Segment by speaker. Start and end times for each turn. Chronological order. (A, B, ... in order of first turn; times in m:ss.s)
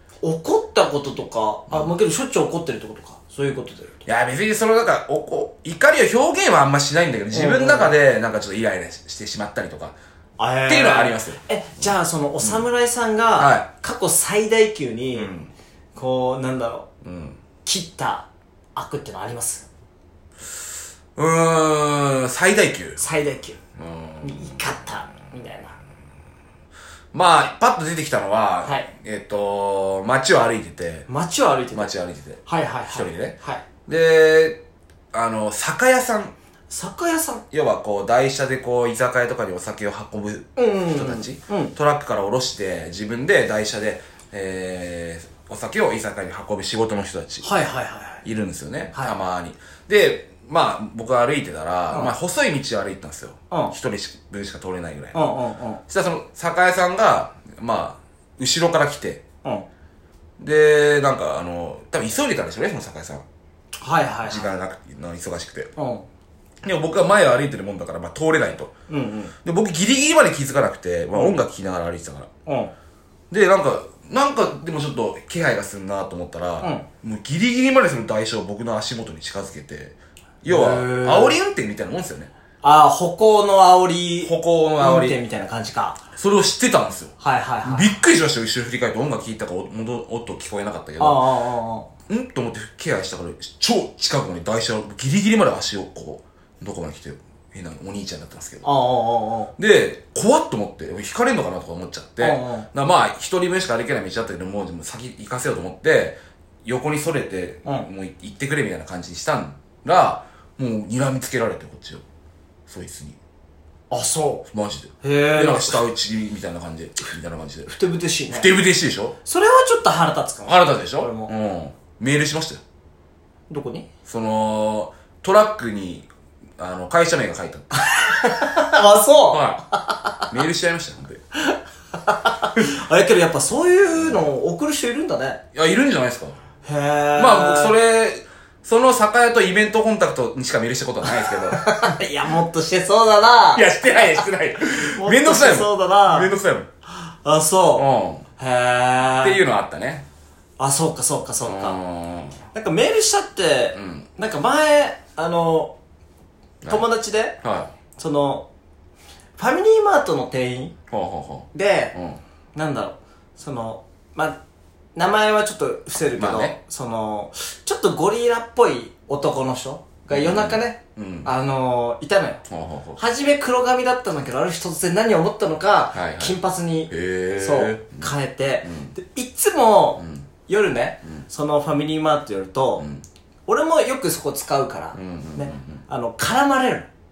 0:00.2-0:04.0 A
0:04.0-0:10.0 B
0:07.3-0:08.0 A
0:10.4-0:15.3 A
0:10.7-0:12.6 B
0:13.4-0:13.7 B
0:15.1-0:15.5 B
0:15.9-0:16.9 A
0:17.0-0:17.4 B
0:17.6-0:19.7 A
0:21.2-0:23.0 B
0:23.0-0:23.6 A
0:23.8-0:24.5 B
0:24.2-0:25.8 A
0:27.1-0:31.1 B
0:28.6-0:28.9 A
0:31.1-0:31.9 A
0:31.7-0:34.6 B
0:32.4-0:33.6 A
0:35.1-0:36.3 B
0:36.7-0:37.4 A
0:37.5-0:47.5 B
0:40.6-0:41.7 A
0:47.4-0:48.2 A
0:48.2-0:55.2 B
0:55.1-0:55.8 A
0:55.9-0:59.2 B
1:00.4-1:03.2 B
1:03.8-1:04.5 A
1:04.2-1:05.7 B
1:05.8-1:06.0 A
1:06.6-1:08.7 B
1:08.9-1:09.3 A
1:09.4-1:12.3 B
1:12.4-1:12.7 A
1:13.3-1:22.3 B
1:16.6-1:16.8 A
1:20.5-1:21.4 A
1:22.6-1:26.0 A
1:24.2-1:25.2 B
1:26.2-1:31.2 B
1:27.2-1:28.0 A
1:31.0-1:31.9 A
1:32.1-1:38.7 B
1:38.6-1:39.5 A
1:39.6-1:52.0 B
1:42.2-1:42.7 A
1:52.7-1:53.2 B
1:53.9-1:54.4 A
1:54.5-1:57.7 B
1:55.0-1:55.8 A
1:57.7-1:58.5 A
1:58.3-1:59.1 B
1:59.2-2:01.3 A
2:00.4-2:02.6 B
2:03.5-2:03.9 A
2:04.0-2:06.1 B
2:06.6-2:07.7 B
2:07.8-2:10.3 A
2:09.3-2:09.6 B
2:10.3-2:11.2 B
2:11.4-2:15.4 A
2:15.5-2:16.4 B
2:16.6-2:17.7 A
2:17.2-2:22.0 B
2:21.0-2:24.0 A
2:23.5-2:26.7 B
2:25.0-2:26.3 A
2:26.9-2:29.4 A
2:27.8-2:28.2 B
2:29.2-2:30.0 B
2:30.6-2:31.8 A
2:31.4-2:32.4 B
2:32.5-2:35.7 A
2:33.7-2:34.1 B
2:36.6-2:36.9 B
2:36.7-2:37.4 A
2:37.4-2:37.7 B
2:38.0-2:38.5 A
2:39.4-2:40.7 A
2:40.9-2:42.2 B
2:41.5-2:41.9 A
2:42.5-2:44.4 A
2:45.0-2:52.4 A
2:46.2-2:46.6 B
2:50.1-2:51.3 B
2:52.5-2:53.0 B
2:53.0-3:02.8 A
2:55.9-2:56.4 B
2:56.9-2:58.1 B
2:58.6-2:58.9 B
3:00.0-3:00.3 B
3:02.8-3:03.0 B
3:03.5-3:06.9 A
3:04.9-3:05.8 B